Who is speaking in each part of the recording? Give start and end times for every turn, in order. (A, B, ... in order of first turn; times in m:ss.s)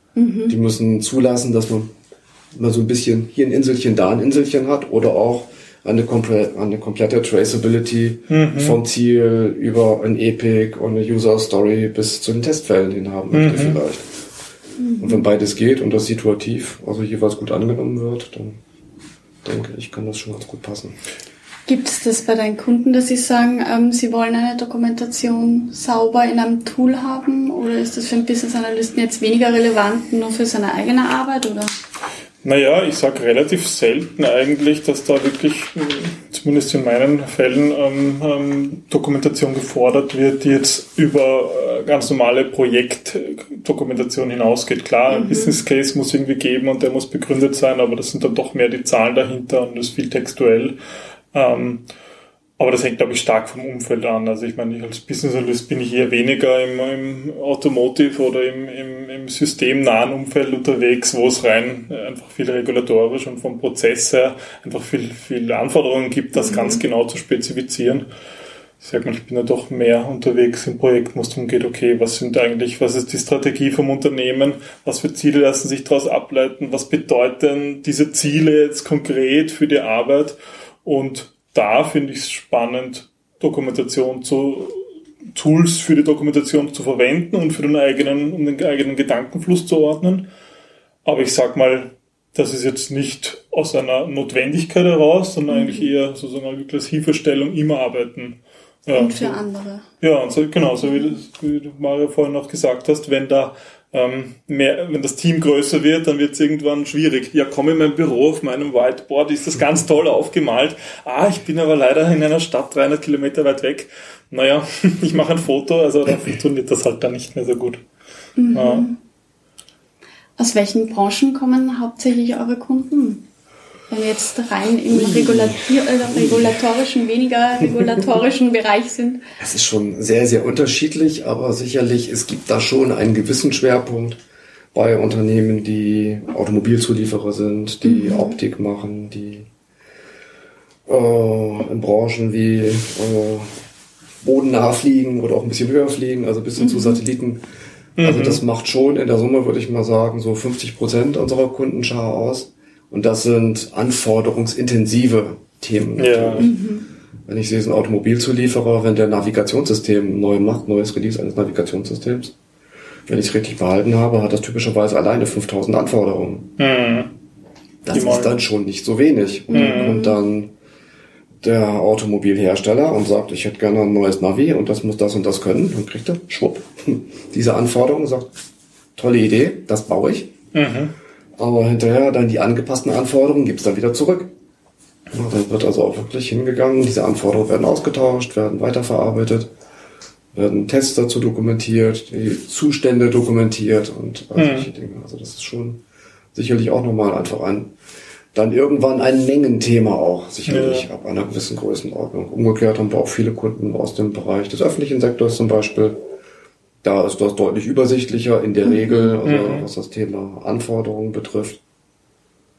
0:00.2-0:00.6 A
0:00.5-0:01.9 B
0:02.5-0:14.1 B
0:08.3-0:08.8 C
0:13.3-0:13.8 C
0:14.8-0:15.3 A
0:15.0-0:18.6 B
0:19.4-0:21.0 B
0:21.7-0:31.7 A
0:32.4-0:50.8 C
0:45.1-0:45.6 A
0:51.3-0:51.8 C
0:52.6-1:08.1 C
1:06.4-1:06.8 A
1:08.8-1:24.8 C
1:25.4-1:30.3 C
1:31.0-1:39.4 C
1:35.5-1:35.9 A
1:38.9-1:39.8 A
1:40.0-1:57.8 C
1:58.4-1:59.0 A
1:58.5-1:58.9 C
2:00.4-2:03.2 A
2:03.9-2:09.2 A
2:04.9-2:06.6 B
2:07.6-2:08.0 B
2:09.4-2:14.2 B
2:14.7-2:19.5 B
2:17.8-2:18.4 A
2:20.9-2:23.5 B
2:24.2-2:27.4 B
2:26.6-2:27.0 A
2:28.0-2:28.4 C
2:28.0-2:36.5 B
2:36.0-2:36.5 C
2:36.4-2:36.9 A
2:37.3-2:42.4 B
2:43.1-2:46.5 B
2:46.6-2:47.1 C
2:47.8-2:50.5 B
2:47.9-2:48.4 C
2:49.5-2:50.2 A
2:49.5-2:50.0 C
2:51.4-2:58.3 B
2:59.0-3:00.3 B
3:00.5-3:00.9 C
3:01.4-3:04.3 B
3:05.1-3:09.5 B
3:10.3-3:15.8 B
3:14.4-3:14.7 C
3:16.3-3:17.7 B
3:18.3-3:26.0 B
3:20.5-3:20.9 C
3:26.8-3:31.6 B
3:28.6-3:29.2 A
3:29.2-3:29.6 C